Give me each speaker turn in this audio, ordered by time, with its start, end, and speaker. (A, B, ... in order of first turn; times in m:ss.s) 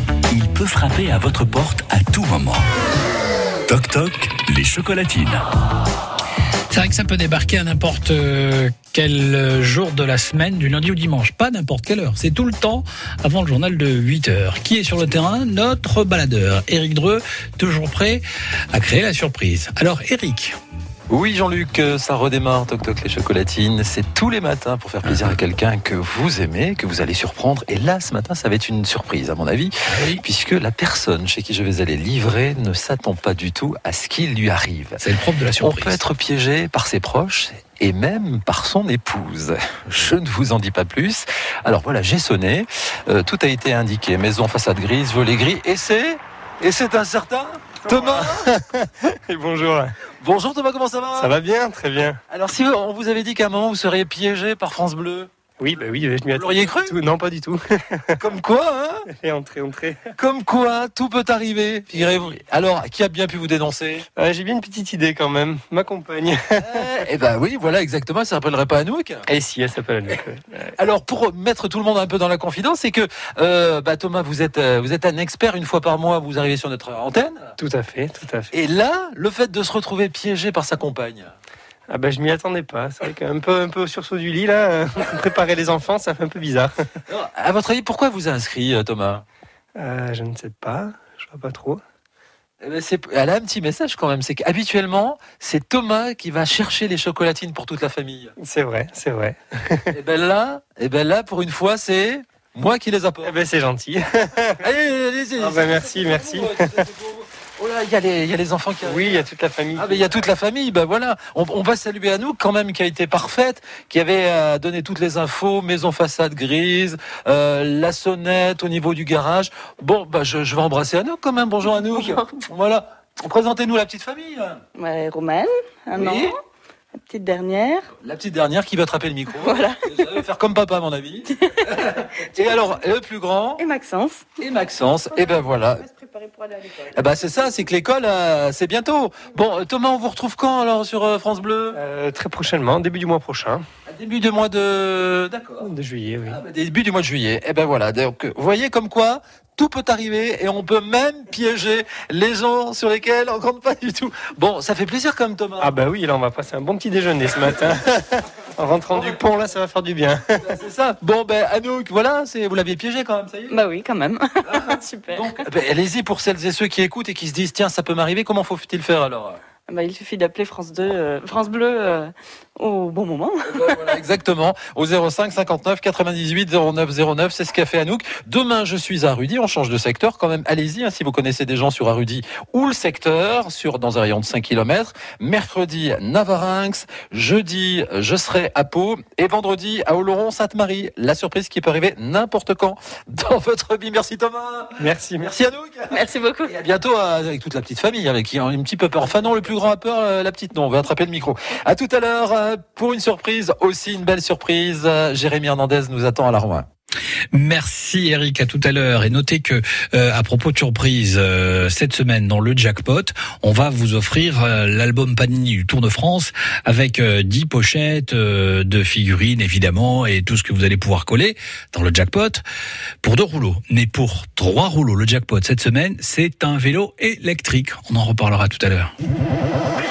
0:00.3-0:02.7 A
0:03.6-0:05.5 A
0:06.7-0:20.6 B
0:21.1-0:35.0 C
0:29.9-0:30.2 B
0:35.0-0:36.0 B
0:35.6-0:48.5 C
0:47.8-0:50.0 D
0:50.2-0:51.3 C
0:51.2-0:52.2 D
0:52.3-0:55.3 C
0:55.6-0:58.2 D
0:56.3-0:57.0 C
0:58.2-0:59.1 C
0:59.1-1:00.1 D
1:00.2-1:04.1 C
1:04.2-1:06.9 D
1:06.6-1:09.2 C
1:09.3-1:10.8 D
1:10.8-1:17.5 C
1:17.6-1:18.5 D
1:18.5-1:21.3 C
1:21.9-1:26.8 D
1:27.1-1:29.2 C
1:29.8-1:31.8 D
1:32.6-1:38.3 C
1:38.4-1:39.9 D
1:39.9-1:43.4 C
1:43.2-1:44.6 D
1:44.6-2:04.6 C
1:45.4-1:46.9 D
1:48.8-1:50.1 D
2:02.0-2:02.3 E
2:04.8-2:06.4 E
2:06.0-2:06.3 C
2:07.0-2:07.9 E
2:08.0-2:13.6 C
2:09.4-2:10.2 E
2:11.3-2:12.6 E
2:13.6-2:14.3 E
2:14.4-2:15.9 C
2:15.9-2:16.9 E
2:16.9-2:21.8 C
2:21.7-2:23.6 D
2:23.9-2:25.7 C
2:25.6-2:26.4 D
2:26.3-2:35.7 C
2:35.6-2:40.6 D
2:40.4-2:43.6 C
2:43.5-2:45.5 E
2:44.4-2:49.4 C
2:49.7-2:54.0 E
2:53.5-3:26.7 C
3:14.8-3:15.3 D
3:15.9-3:16.6 E
3:27.3-3:42.4 B
3:43.0-3:48.9 B